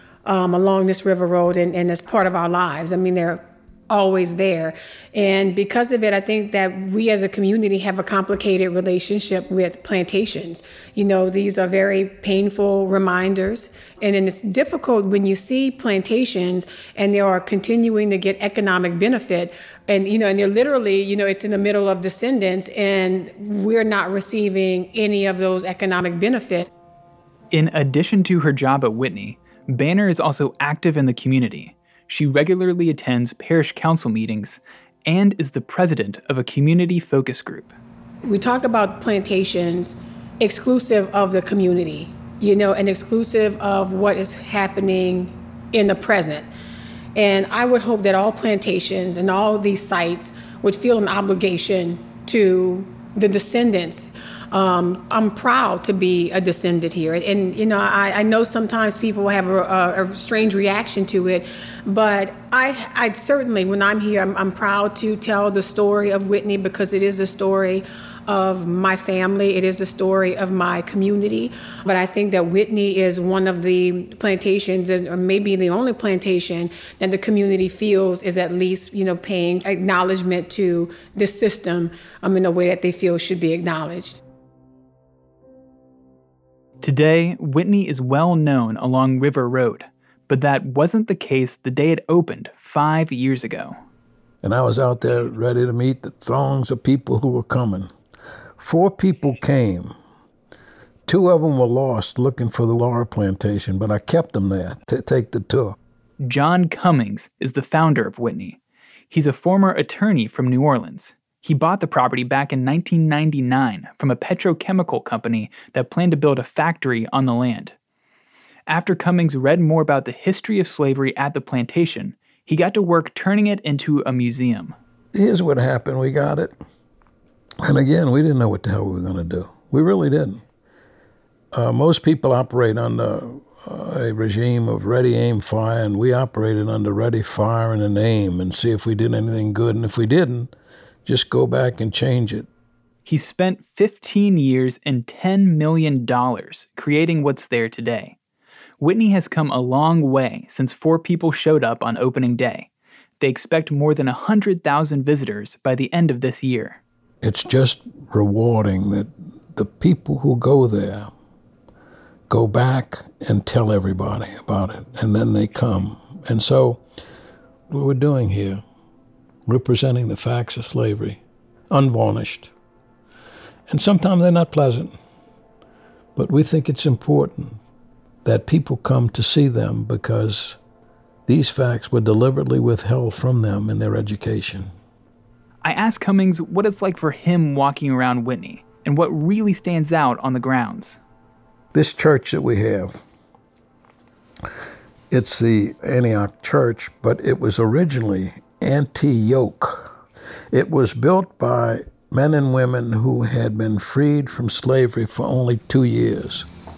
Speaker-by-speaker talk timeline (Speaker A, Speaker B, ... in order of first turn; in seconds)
Speaker A: 0.2-26.7, 38.2-46.5, 47.2-84.2
Speaker B: 27.5-37.7, 86.8-93.8, 106.2-108.6, 109.1-117.8, 118.7-124.8, 143.1-148.2, 148.8-152.7, 153.2-156.8, 185.6-191.0
Speaker C: 94.4-97.9, 98.6-99.9, 101.1-105.8, 125.1-126.5, 127.6-130.4, 131.5-140.5, 141.1-142.5, 157.2-161.1, 162.3-166.8, 167.7-168.6, 169.5-171.2, 171.7-172.5, 173.7-174.9, 176.2-177.6, 178.2-180.6, 181.3-184.7, 191.7-193.0, 195.1-199.9, 200.5-206.5